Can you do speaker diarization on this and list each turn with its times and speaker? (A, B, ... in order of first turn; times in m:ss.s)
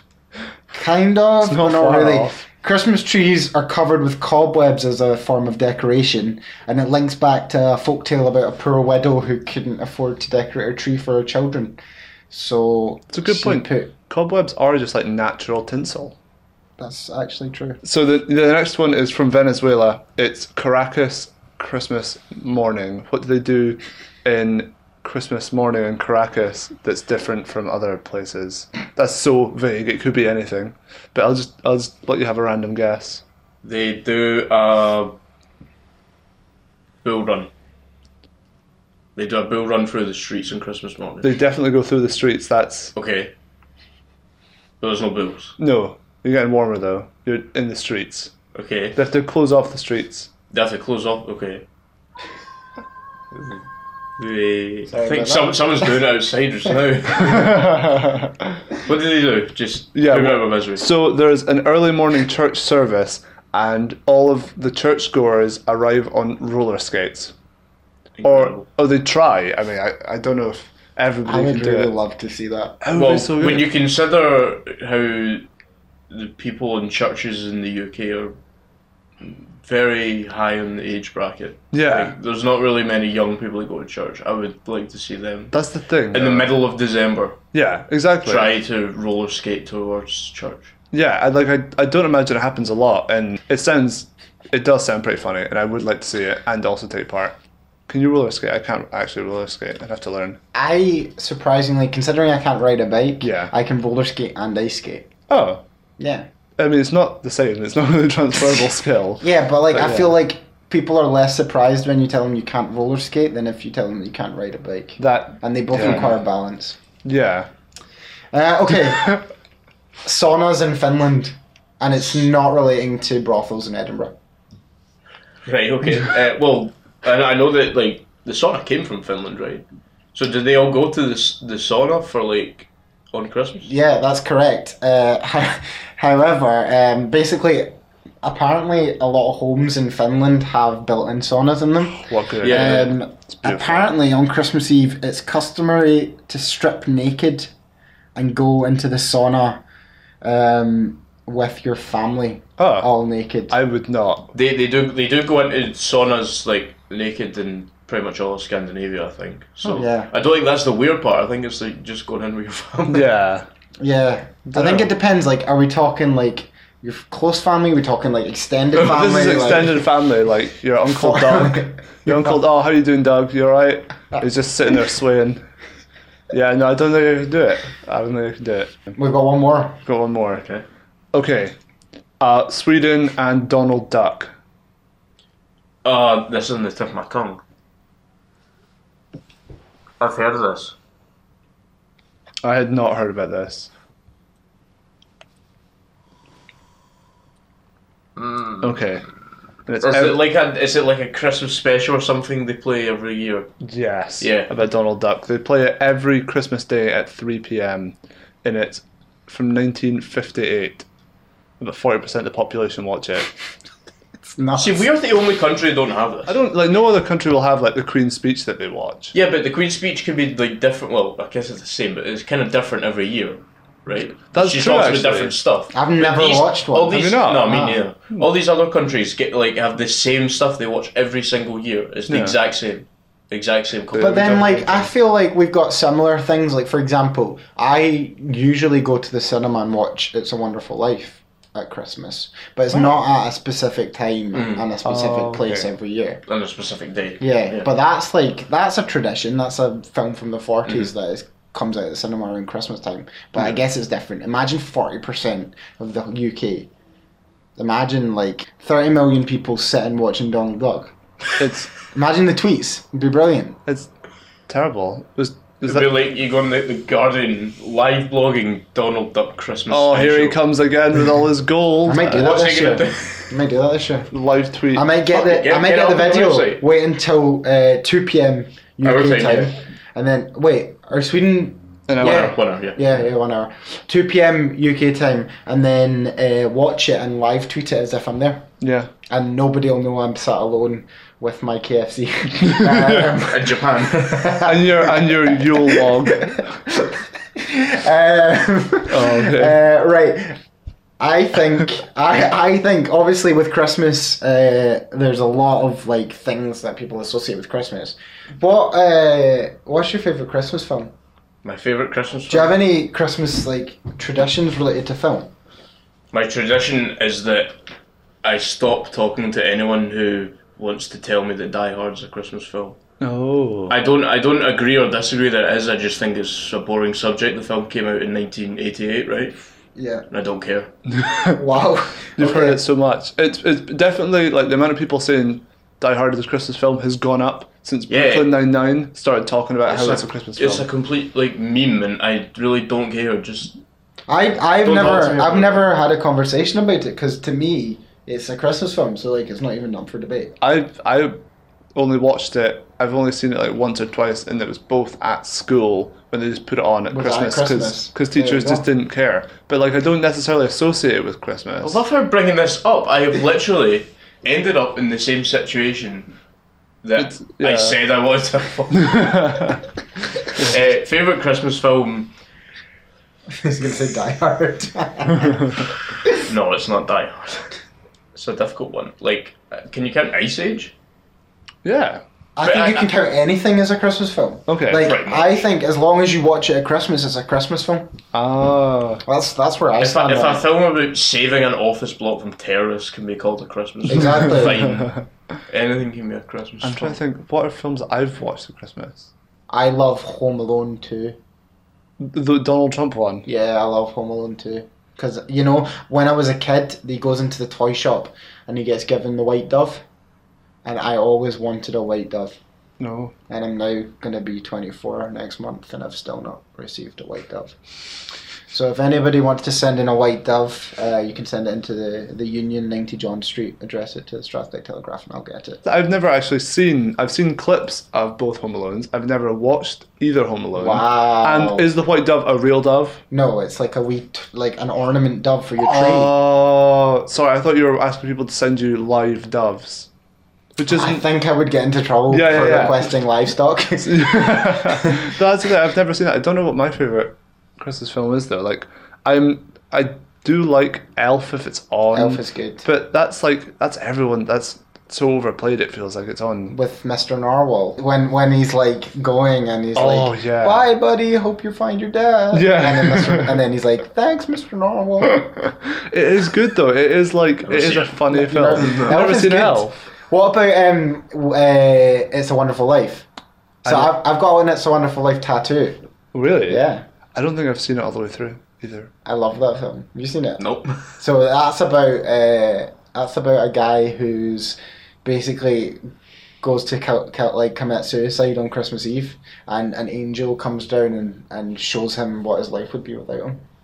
0:00.7-0:11.8 A
0:01.4-0:02.4 B
0:12.3-0:13.9 A
0:13.1-0:16.2 B
0:16.8-0:17.8 A
0:17.8-0:33.2 B
0:33.6-0:35.2 C
0:37.0-0:37.5 C
0:39.2-0:41.3 C
0:41.2-0:42.9 B
0:42.9-0:43.3 C
0:44.8-0:45.6 C
0:45.6-0:48.3 B
0:48.5-0:49.0 C
0:49.0-0:50.3 B
0:50.5-0:51.6 C
0:54.2-0:57.8 C
0:54.9-0:55.8 A
0:58.8-1:00.8 C
0:59.9-1:07.3 B
1:08.2-1:08.7 C
1:08.2-1:11.9 B
1:11.2-1:12.8 A
1:12.8-1:13.7 B
1:12.9-1:15.5 C
1:16.1-1:18.4 C
1:19.2-1:25.6 C
1:21.7-1:22.1 B
1:25.5-1:26.6 B
1:26.1-1:27.4 C
1:27.5-1:28.5 B
1:28.2-1:30.7 C
1:30.9-1:37.4 B
1:37.9-1:40.4 B
1:40.5-1:45.1 A
1:43.2-1:43.5 B
1:45.3-1:45.6 B
1:46.0-1:46.3 A
1:46.6-1:50.1 B
1:49.2-1:56.8 A
1:55.0-1:56.1 B
1:57.0-1:57.5 B
1:58.3-1:59.3 A
2:00.0-2:04.1 A
2:05.4-2:13.7 C
2:13.6-2:27.5 A
2:22.0-2:23.9 B
2:22.4-2:22.9 C
2:28.1-2:29.6 A
2:30.2-2:33.6 A
2:32.6-2:32.9 B
2:33.5-2:34.3 B
2:34.3-2:43.1 C
2:39.7-2:40.1 A
2:42.9-2:43.5 B
2:43.8-2:49.9 A
2:44.5-2:44.9 B
2:48.8-2:55.4 B
2:50.9-2:52.4 A
2:56.3-2:58.7 B
2:59.0-2:59.8 A
2:59.9-3:00.4 B
3:00.3-3:00.6 C
3:01.1-3:01.5 B
3:02.2-3:04.3 B
3:05.8-3:07.4 C
3:10.0-3:10.8 C
3:12.4-3:13.7 B
3:18.2-3:18.8 C
3:18.6-3:19.0 B
3:19.7-3:20.2 B
3:19.8-3:23.5 C
3:23.6-3:30.9 B
3:24.2-3:24.5 C
3:31.6-3:33.3 B
3:34.2-3:34.9 A
3:34.5-3:36.4 C
3:36.3-3:39.1 B
3:39.1-3:54.4 C
3:44.3-3:45.4 B
3:45.7-3:47.8 A
3:46.9-3:47.6 B
3:52.1-3:52.4 B
3:53.9-3:54.9 B
3:54.0-4:06.2 A
4:04.3-4:04.6 C
4:04.8-4:05.7 B
4:06.3-4:07.7 C
4:07.2-4:16.7 A
4:17.6-4:20.9 A
4:21.4-4:21.7 B
4:21.8-4:23.6 A
4:24.5-4:25.9 B
4:25.6-4:30.4 C
4:29.7-4:32.4 B
4:31.8-4:34.1 A
4:32.1-4:33.3 C
4:34.1-4:34.9 B
4:34.7-4:48.5 A
4:35.1-4:36.6 C
4:38.8-4:39.5 C
4:41.9-4:42.3 B
4:42.0-4:42.8 C
4:48.6-4:48.9 B
4:49.1-5:00.4 A
4:52.5-4:53.0 B
4:53.2-4:54.4 C
4:54.4-4:56.5 B
4:58.9-4:59.6 B
5:01.0-5:10.9 A
5:11.4-5:12.6 C
5:12.3-5:15.3 A
5:16.1-5:17.6 C
5:18.2-5:22.8 C
5:23.0-5:23.7 B
5:23.7-5:29.4 C
5:29.8-5:30.0 A
5:30.1-5:30.7 C
5:30.9-5:31.4 B
5:31.3-5:32.6 A
5:32.2-5:40.6 B
5:37.9-5:38.3 C
5:39.7-5:43.6 C
5:44.1-5:50.4 A
5:44.6-5:45.6 C
5:50.4-5:51.2 B
5:51.7-6:01.8 B
5:56.9-5:58.6 A
6:01.6-6:06.1 C
6:06.8-6:09.4 C
6:07.0-6:07.8 B
6:08.8-6:09.6 B
6:10.4-6:12.1 C
6:13.3-6:15.6 A
6:16.2-6:17.6 C
6:18.1-6:20.7 C
6:21.6-6:22.0 B
6:22.4-6:27.9 A
6:22.4-6:22.9 C
6:24.5-6:24.9 B
6:24.7-6:25.4 C
6:28.1-6:29.0 B
6:29.0-6:30.4 A
6:29.8-6:35.0 C
6:33.9-6:34.8 A
6:35.5-6:37.0 C
6:36.6-6:39.1 B
6:39.5-6:41.2 A
6:42.0-6:43.2 B
6:43.2-6:49.8 A
6:50.6-6:52.4 A
6:52.8-6:53.1 B
6:53.3-6:57.5 A
6:58.5-7:05.6 A
7:05.6-7:13.0 B
7:10.6-7:11.7 A
7:13.1-7:16.2 A
7:15.6-7:19.9 B
7:20.6-7:21.0 B
7:20.7-7:25.1 A
7:22.1-7:22.9 B
7:23.8-7:36.6 B
7:31.9-7:32.7 A
7:36.5-7:45.5 A
7:39.7-7:40.6 B
7:42.3-7:43.4 B
7:45.6-7:49.8 B
7:47.4-7:48.0 C
7:48.1-7:53.1 A
7:48.5-7:49.0 C
7:53.6-7:55.8 A
7:53.6-7:53.9 B
7:56.1-7:56.6 B
7:56.5-7:56.8 A
7:57.1-7:58.9 B
7:59.0-8:00.4 A
8:00.4-8:00.9 C
8:01.0-8:05.8 A
8:06.4-8:13.4 A